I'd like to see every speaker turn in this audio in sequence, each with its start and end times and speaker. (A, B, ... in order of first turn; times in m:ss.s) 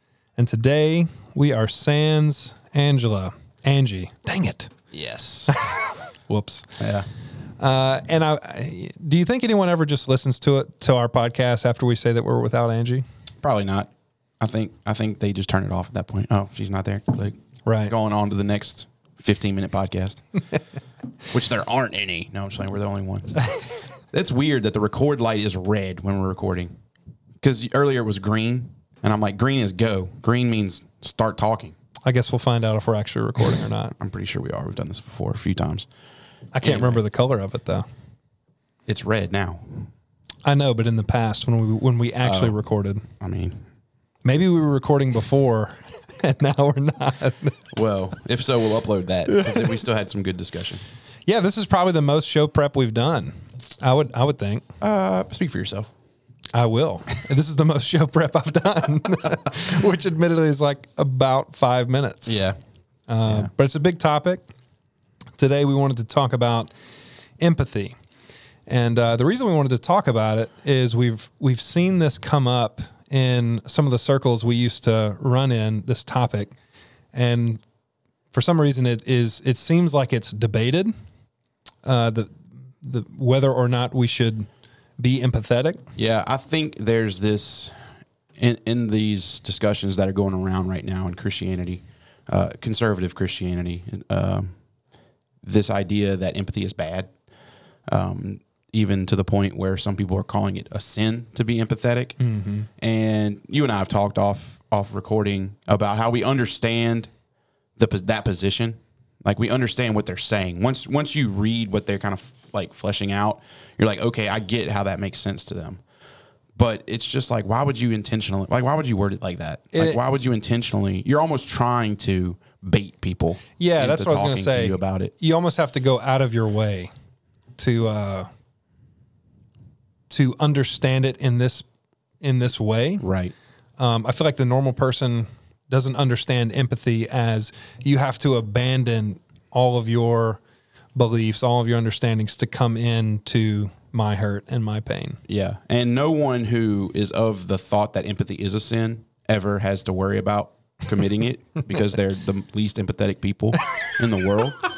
0:00.4-0:04.7 A
0:04.9-0:05.5 B
0:05.5-0:06.8 A
0:06.8-0:07.1 B
0:07.6-0:13.0 A
0:13.4-0:20.4 B
0:17.6-0:17.9 A
0:21.3-0:23.5 B
0:24.1-0:26.7 B
0:27.4-0:31.8 B
0:32.0-0:33.9 A
0:34.0-0:35.9 B
0:36.5-0:37.8 A
0:36.6-0:37.0 B
0:38.9-0:39.9 B
0:40.4-0:43.0 A
0:42.2-0:42.6 B
0:43.2-0:43.6 B
0:44.2-0:47.7 A
0:47.7-0:50.8 B
0:49.3-0:49.7 A
0:51.2-0:54.6 A
0:54.8-0:55.9 B
0:56.5-1:02.4 A
1:02.2-1:02.6 B
1:03.1-1:04.5 A
1:03.2-1:03.5 B
1:05.4-1:06.7 A
1:07.4-1:07.9 A
1:08.7-1:16.5 A
1:17.1-1:17.6 A
1:18.3-1:20.9 A
1:21.8-1:24.5 A
1:25.0-1:25.8 A
1:26.0-1:27.8 B
1:28.4-1:34.6 B
1:35.4-1:37.1 B
1:37.9-1:42.2 B
1:42.2-1:42.7 A
1:42.8-1:47.1 B
1:47.8-1:55.8 B
1:56.6-2:05.1 B
1:59.7-2:00.0 A
2:03.6-2:06.9 A
2:07.6-2:08.3 A
2:10.1-2:11.7 A
2:12.2-2:13.0 A
2:13.0-2:13.3 B
2:13.8-2:20.4 A
2:20.9-2:25.2 A
2:25.3-2:34.6 B